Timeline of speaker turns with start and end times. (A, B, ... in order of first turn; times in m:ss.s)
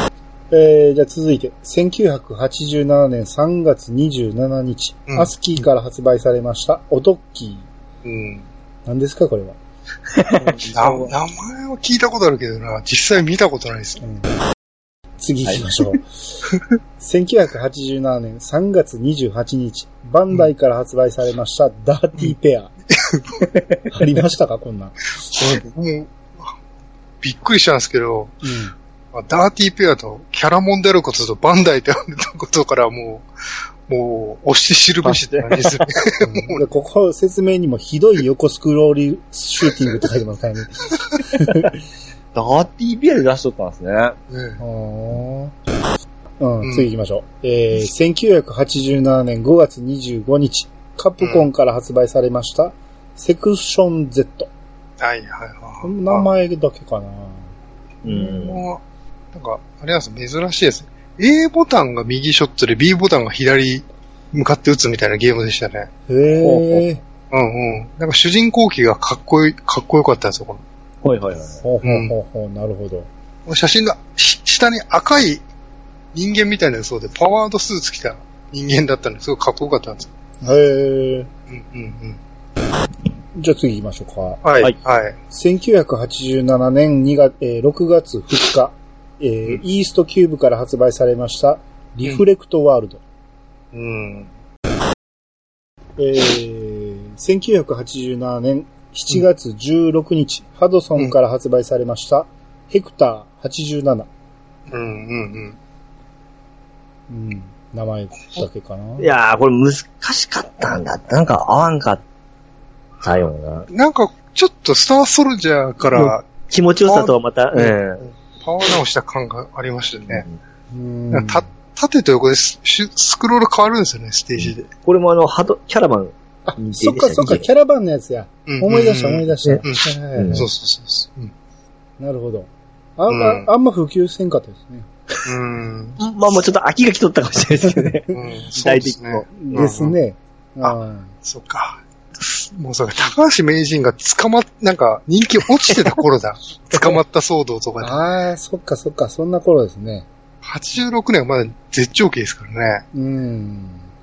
0:00.5-0:07.7 A
0:08.0-0:08.5 B
0:08.9-0:09.6 A
0:10.1-0:11.1 C
0:10.6-0:14.0 B
0:15.2-0:16.1 A
0:17.0-0:22.7 A
0:22.9-0:23.4 B
0:23.5-0:23.8 C
0:23.9-0:25.1 A
0:25.3-0:26.5 B
0:27.2-0:28.4 B
0:28.4-0:28.8 A
0:29.1-0:33.3 B
0:33.9-0:36.6 B
0:35.0-0:35.9 C
0:36.2-0:41.7 A
0:42.3-0:44.2 C
0:44.3-0:44.6 B
0:44.6-0:45.5 A
0:46.4-0:54.5 A
0:46.6-0:46.9 B
0:51.2-0:51.5 B
0:55.0-0:56.3 B
0:55.8-0:57.5 A
0:58.0-0:58.6 C
0:58.1-0:58.8 B
0:59.3-1:05.9 B
1:06.1-1:07.0 A
1:06.4-1:06.8 C
1:07.3-1:10.6 B
1:11.0-1:11.6 C
1:11.6-1:13.1 A
1:11.8-1:12.1 B
1:13.5-1:15.4 B
1:16.1-1:20.1 B
1:20.4-1:21.3 A
1:21.5-1:22.2 B
1:23.4-1:24.4 A
1:24.4-1:25.2 B
1:25.3-1:33.0 A
1:33.7-1:34.3 B
1:36.0-1:44.1 A
1:44.7-1:45.6 B
1:47.1-1:49.1 A
1:49.0-1:52.0 C
1:53.0-1:53.7 C
1:53.7-1:56.3 B
1:55.9-1:58.0 C
1:56.9-1:57.8 B
1:58.4-2:00.3 B
2:00.7-2:01.4 A
2:01.1-2:04.7 B
2:04.4-2:07.4 C
2:06.5-2:10.4 A
2:08.5-2:11.3 B
2:10.2-2:10.5 C
2:12.0-2:14.9 A
2:13.1-2:13.5 B
2:15.2-2:16.0 B
2:16.0-2:19.4 C
2:18.1-2:20.0 B
2:19.4-2:21.1 A
2:20.6-2:28.0 B
2:26.7-2:27.0 C
2:27.8-2:30.1 A
2:30.4-2:32.8 B
2:32.9-2:33.9 A